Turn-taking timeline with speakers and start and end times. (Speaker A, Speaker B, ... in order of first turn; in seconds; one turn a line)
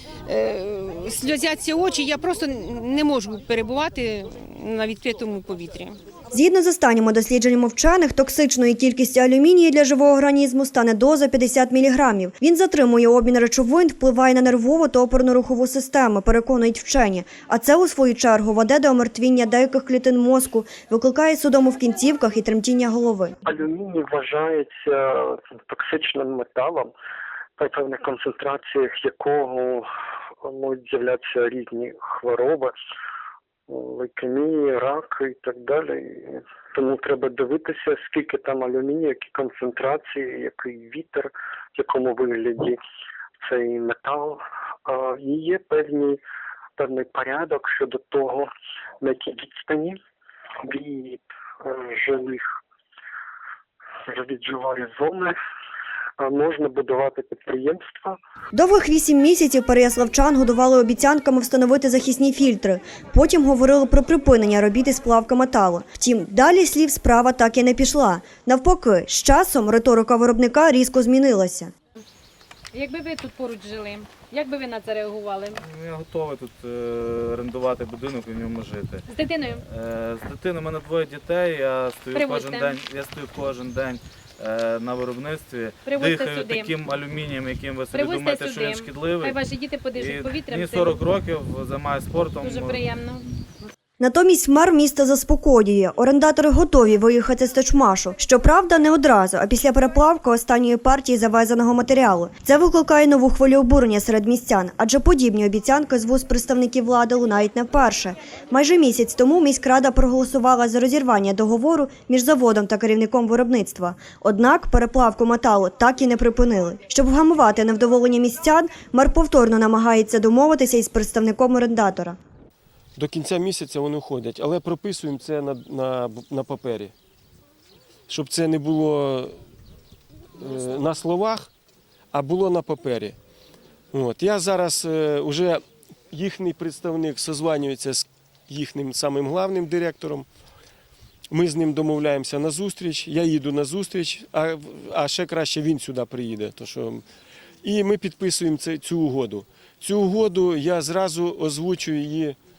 Speaker A: 0.3-6.0
Speaker B: 6.3-23.4
Speaker C: 23.4-26.9
Speaker C: 27.6-29.9
Speaker C: 30.4-32.8
Speaker C: 33.7-42.8
Speaker C: 43.4-46.2
Speaker C: 46.8-48.5
Speaker C: 49.0-50.0
Speaker C: 50.6-52.5
Speaker C: 54.1-55.4
Speaker C: 56.2-58.2
Speaker B: 58.5-71.7
Speaker D: 72.7-75.6
Speaker E: 75.5-79.0
Speaker D: 79.1-79.6
Speaker E: 79.7-89.4
Speaker D: 82.1-82.7
Speaker D: 85.9-86.7
Speaker D: 87.9-91.0
Speaker E: 89.9-92.8
Speaker D: 92.4-93.2
Speaker B: 94.0-122.2
Speaker F: 123.0-126.9
Speaker F: 128.1-129.4
Speaker F: 130.4-131.5
Speaker F: 132.1-133.2
Speaker F: 133.9-140.2
Speaker F: 141.3-147.1
Speaker F: 147.6-152.4